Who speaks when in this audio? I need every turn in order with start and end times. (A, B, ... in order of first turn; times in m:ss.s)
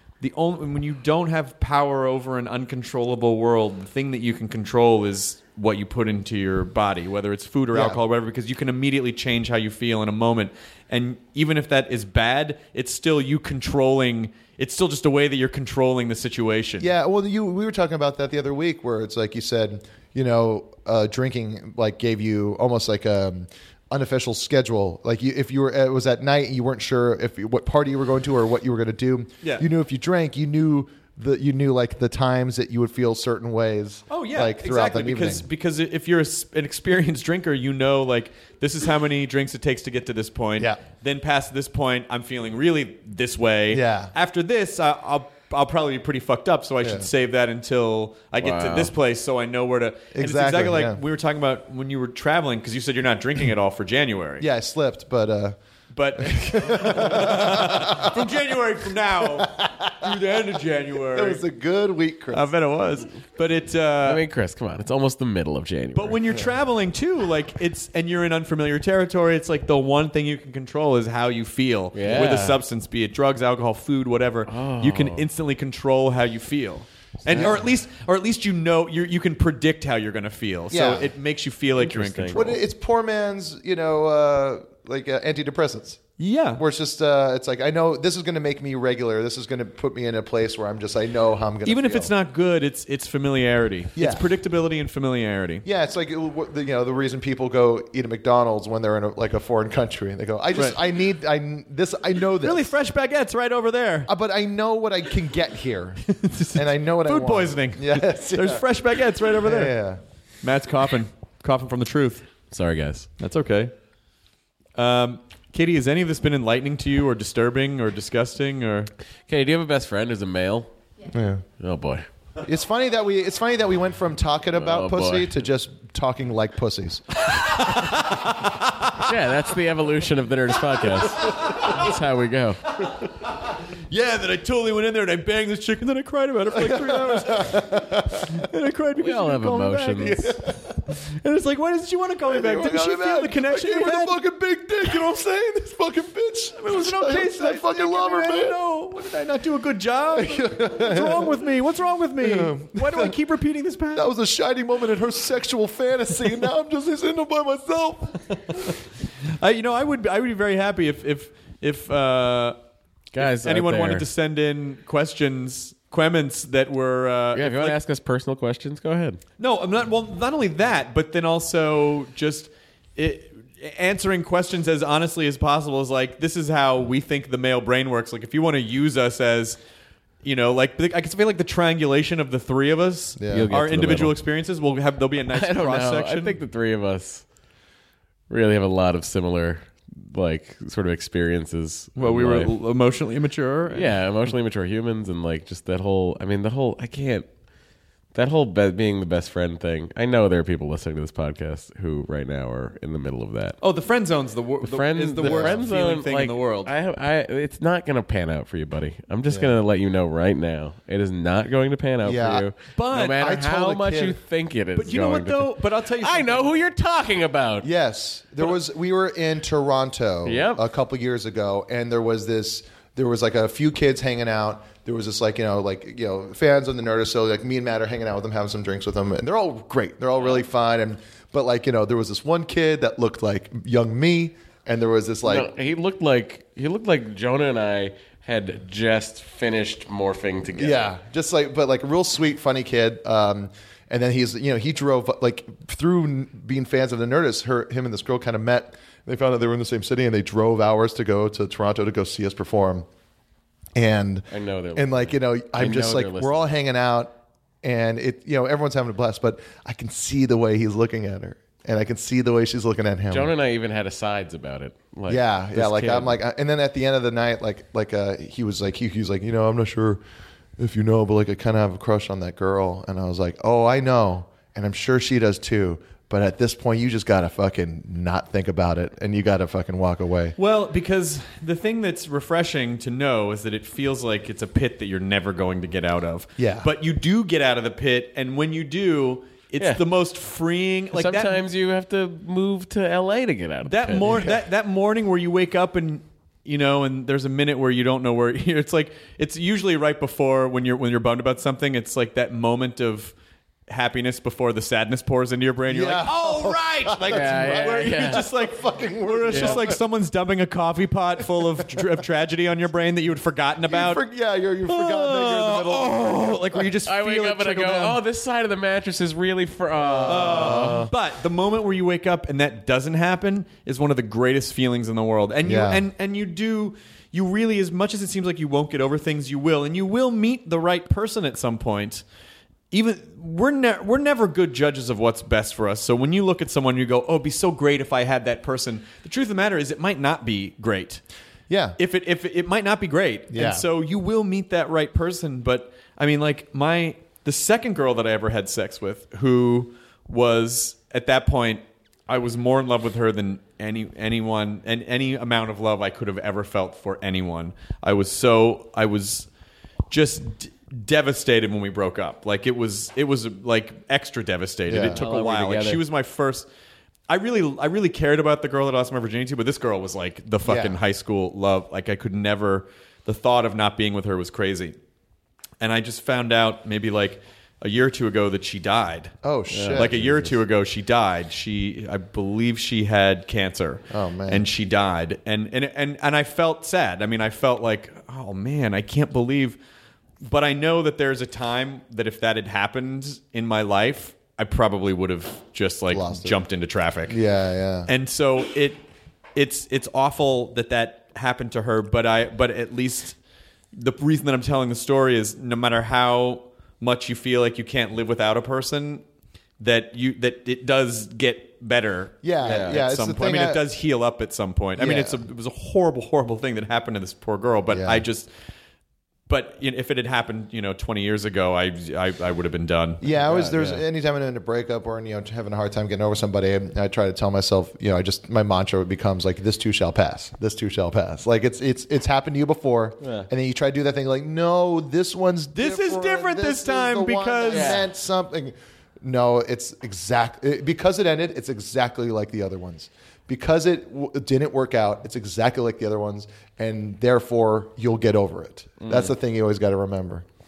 0:00.2-0:16.9 A
0:07.7-0:08.0 B
0:16.8-0:35.5 B
0:34.1-0:54.5 A
0:43.7-0:44.1 B
0:46.8-0:47.1 B
0:48.4-0:48.9 C
0:50.1-0:51.0 B
0:54.4-0:55.6 B
0:55.9-1:01.4 A
0:56.2-0:58.3 B
0:59.2-1:00.2 B
1:01.0-1:02.5 B
1:02.3-1:04.2 A
1:04.0-1:06.2 C
1:05.9-1:22.6 A
1:11.9-1:12.6 C
1:14.5-1:15.2 C
1:17.3-1:17.6 B
1:20.7-1:21.1 B
1:21.8-1:22.5 C
1:22.3-1:26.0 B
1:26.2-1:26.6 A
1:26.6-1:32.1 B
1:31.6-1:35.6 A
1:34.0-1:34.3 B
1:35.6-1:42.7 B
1:42.4-1:44.1 A
1:44.1-1:48.6 B
1:46.1-1:49.8 A
1:49.4-1:50.0 B
1:50.4-1:52.3 A
1:52.5-1:53.1 C
1:53.2-1:53.7 A
1:54.8-1:58.9 A
1:59.3-2:00.7 C
2:01.1-2:01.4 B
2:01.6-2:02.0 C
2:02.4-2:07.2 B
2:04.5-2:05.3 C
2:07.3-2:09.0 A
2:09.0-2:12.6 C
2:11.3-2:11.9 A
2:13.9-2:24.2 A
2:16.5-2:18.4 B
2:19.0-2:20.2 C
2:20.0-2:20.6 B
2:22.3-2:28.6 B
2:26.6-2:34.1 A
2:30.1-2:31.4 B
2:32.2-2:33.1 B
2:33.9-2:38.2 B
2:39.4-2:42.6 A
2:43.1-2:44.0 C
2:43.2-2:47.8 A
2:47.3-2:49.2 C
2:49.4-2:59.6 A
3:00.2-3:06.4 A
3:03.2-3:03.5 B
3:03.3-3:04.2 C
3:05.3-3:07.2 C
3:08.3-3:12.5 C
3:12.0-3:14.0 A
3:13.7-3:17.3 C
3:18.1-3:23.6 C
3:23.6-3:26.7 A
3:24.6-3:37.7 C
3:25.2-3:25.6 B
3:29.3-3:29.6 B
3:32.0-3:32.5 B
3:32.8-3:33.3 A
3:33.1-3:34.2 B
3:34.8-3:36.5 A
3:37.6-3:55.5 B
3:40.2-3:40.6 C
3:55.2-4:00.9 C
4:00.5-4:12.8 B
4:13.7-4:23.3 B
4:14.3-4:16.5 C
4:23.1-4:26.2 C
4:25.1-4:30.0 B
4:30.6-4:40.4 B
4:40.4-4:51.4 A
4:46.4-4:46.7 B
4:50.9-4:54.3 C
4:53.6-5:03.1 A
5:03.7-5:14.0 A
5:05.7-5:09.8 B
5:07.1-5:08.2 C
5:09.3-5:09.7 C
5:11.4-5:11.9 B
5:13.7-5:16.7 B
5:14.7-5:18.0 A
5:16.8-5:20.9 C
5:19.8-5:20.9 B
5:20.0-5:32.0 A
5:25.4-5:25.8 B
5:32.7-5:41.0 A
5:41.5-5:41.8 B
5:41.8-5:59.3 A
5:43.3-5:43.6 B
5:59.9-6:06.5 A
6:04.7-6:05.0 B
6:04.9-6:05.8 C
6:07.1-6:14.8 A
6:10.4-6:10.8 B
6:15.6-6:19.1 A
6:19.2-6:20.0 B
6:19.5-6:20.3 C
6:19.7-6:29.6 A
6:23.9-6:24.5 B
6:30.2-6:37.2 A
6:35.9-6:36.4 B
6:37.1-6:37.9 B
6:37.9-6:38.8 A
6:39.3-6:43.2 A
6:43.7-6:49.0 A
6:49.6-6:58.3 A
6:52.2-6:53.6 B
6:52.4-6:52.8 C
6:54.8-6:55.2 B
6:57.7-6:58.0 B
6:59.3-7:03.0 A
7:03.0-7:30.2 B
7:03.1-7:03.8 C
7:13.0-7:13.3 C
7:15.5-7:17.8 A
7:17.5-7:17.8 C
7:28.8-7:29.1 C